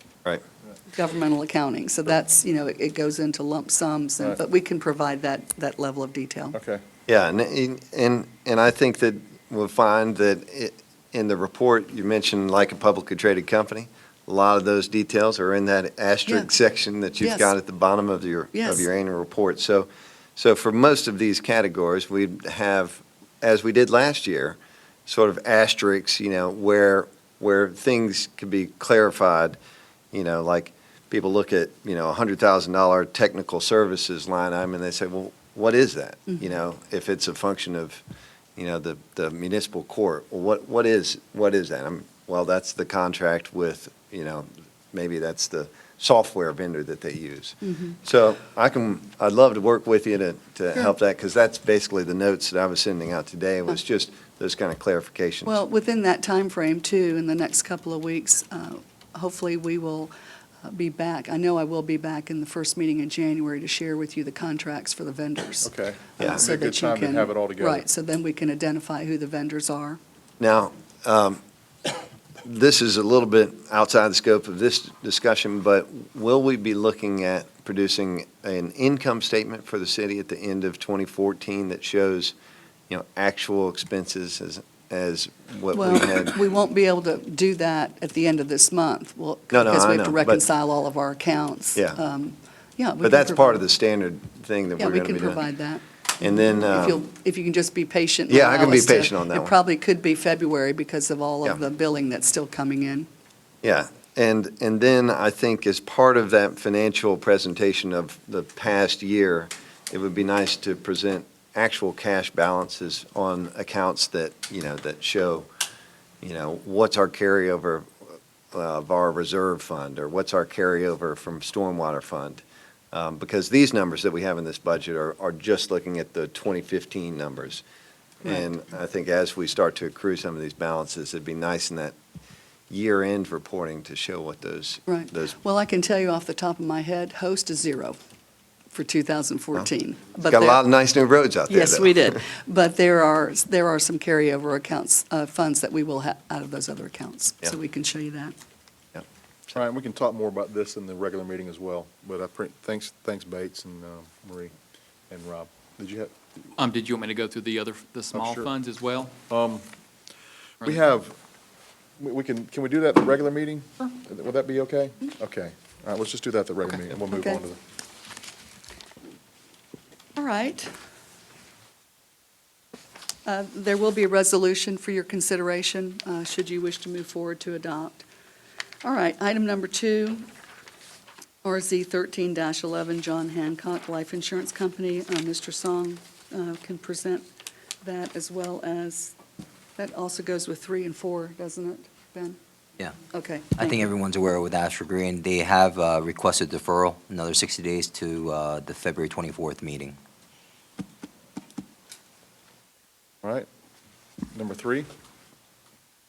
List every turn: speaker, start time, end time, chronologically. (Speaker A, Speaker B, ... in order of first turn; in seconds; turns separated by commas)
Speaker A: 0.9-6.6, Speaker B: 6.5-6.8, Speaker C: 7.1-29.6, Speaker A: 17.2-17.5, Speaker A: 18.5-18.8, Speaker C: 30.1-38.0, Speaker C: 38.5-55.6, Speaker A: 47.7-47.9, Speaker A: 55.4-60.1, Speaker A: 60.6-70.0, Speaker B: 65.6-67.8, Speaker C: 70.4-71.4, Speaker C: 72.4-82.3, Speaker C: 82.9-86.3, Speaker A: 85.7-93.6, Speaker C: 89.5-90.4, Speaker C: 93.0-95.4, Speaker A: 94.8-95.8, Speaker C: 96.2-97.0, Speaker A: 96.6-103.1, Speaker C: 98.3-99.5, Speaker C: 103.6-115.5, Speaker C: 116.2-127.6, Speaker C: 128.2-131.9, Speaker C: 132.7-135.3, Speaker A: 134.9-138.0, Speaker A: 138.7-140.6, Speaker C: 140.3-142.2, Speaker A: 141.5-148.3, Speaker B: 149.5-154.5, Speaker B: 155.1-156.1, Speaker D: 156.6-159.2, Speaker B: 158.1-158.5, Speaker B: 159.3-159.6, Speaker B: 160.6-161.2, Speaker B: 162.0-167.6, Speaker A: 167.1-167.4, Speaker A: 170.2-170.7, Speaker A: 173.2-178.1, Speaker A: 178.8-180.2, Speaker A: 181.4-187.2, Speaker A: 187.8-189.1, Speaker A: 189.8-192.4, Speaker A: 193.1-193.7, Speaker E: 193.6-199.9, Speaker B: 203.2-203.5, Speaker B: 204.3-204.9